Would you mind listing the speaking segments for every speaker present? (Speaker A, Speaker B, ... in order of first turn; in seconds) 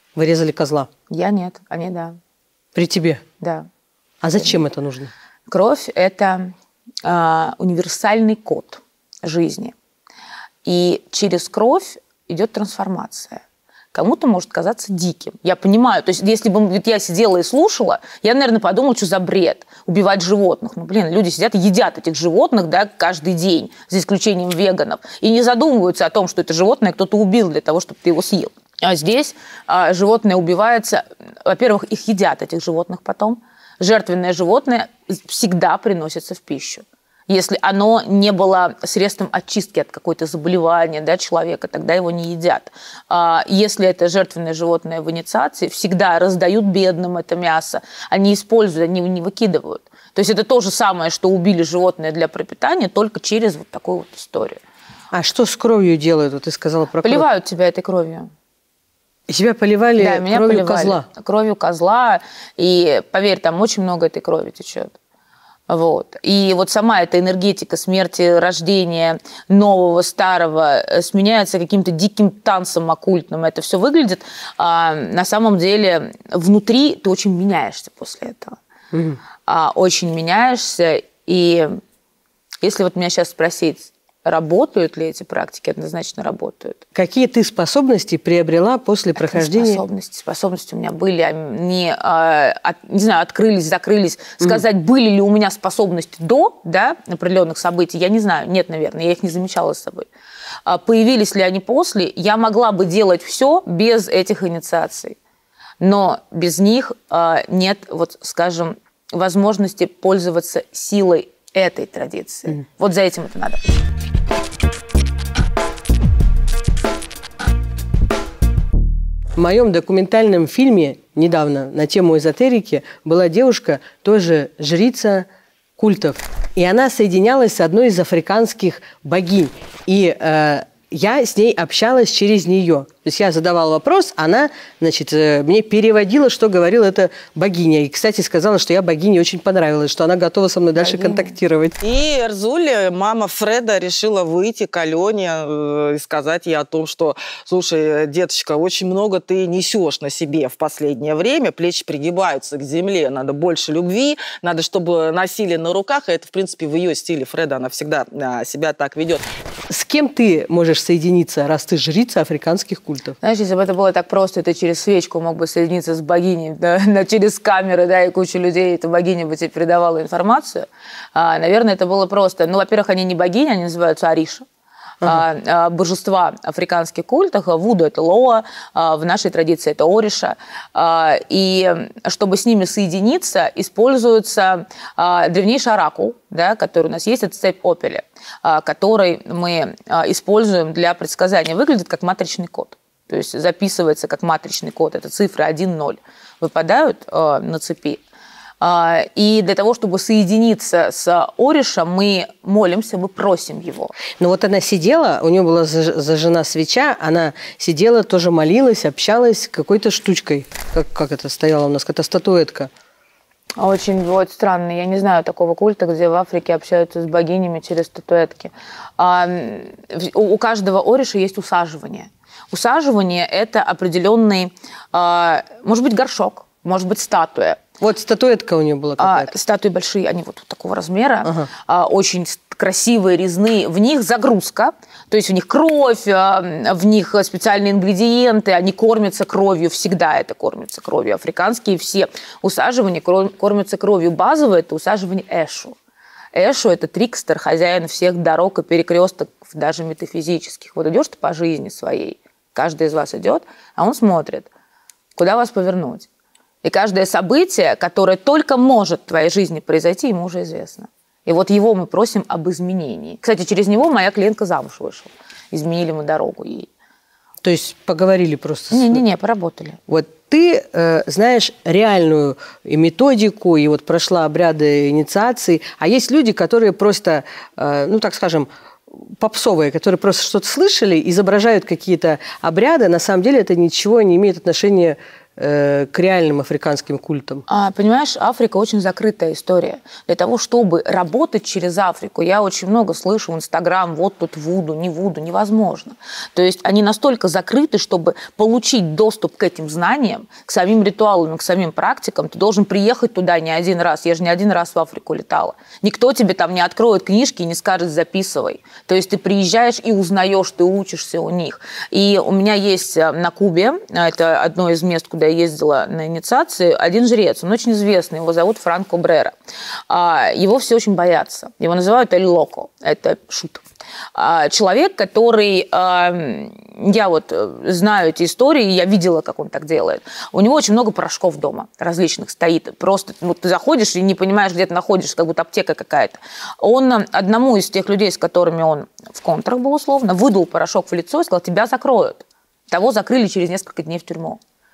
Speaker A: 0.2-0.9, 2.7-3.2, 4.2-5.1, 55.1-57.3, 59.3-61.1, 78.9-79.2, 87.0-89.8, 119.4-141.8, 159.7-163.2, 204.2-212.7, 227.8-229.3, 231.2-231.5, 267.4-269.0, 269.9-287.4
Speaker B: 1.1-2.2, 3.4-3.7, 5.5-6.5, 7.0-9.7, 10.7-13.4, 13.9-54.6, 57.0-58.3, 60.0-64.9, 65.7-78.6, 79.5-81.8, 82.6-86.8, 89.2-100.1, 100.7-105.2, 105.8-113.6, 140.8-141.4, 163.2-174.4, 175.0-198.0, 198.6-203.9, 213.6-227.6, 229.0-245.8, 246.3-254.5, 255.2-256.1, 256.6-266.7, 268.7-269.8, 287.5-319.3, 319.9-323.6, 324.1-344.4
Speaker C: 141.8-159.2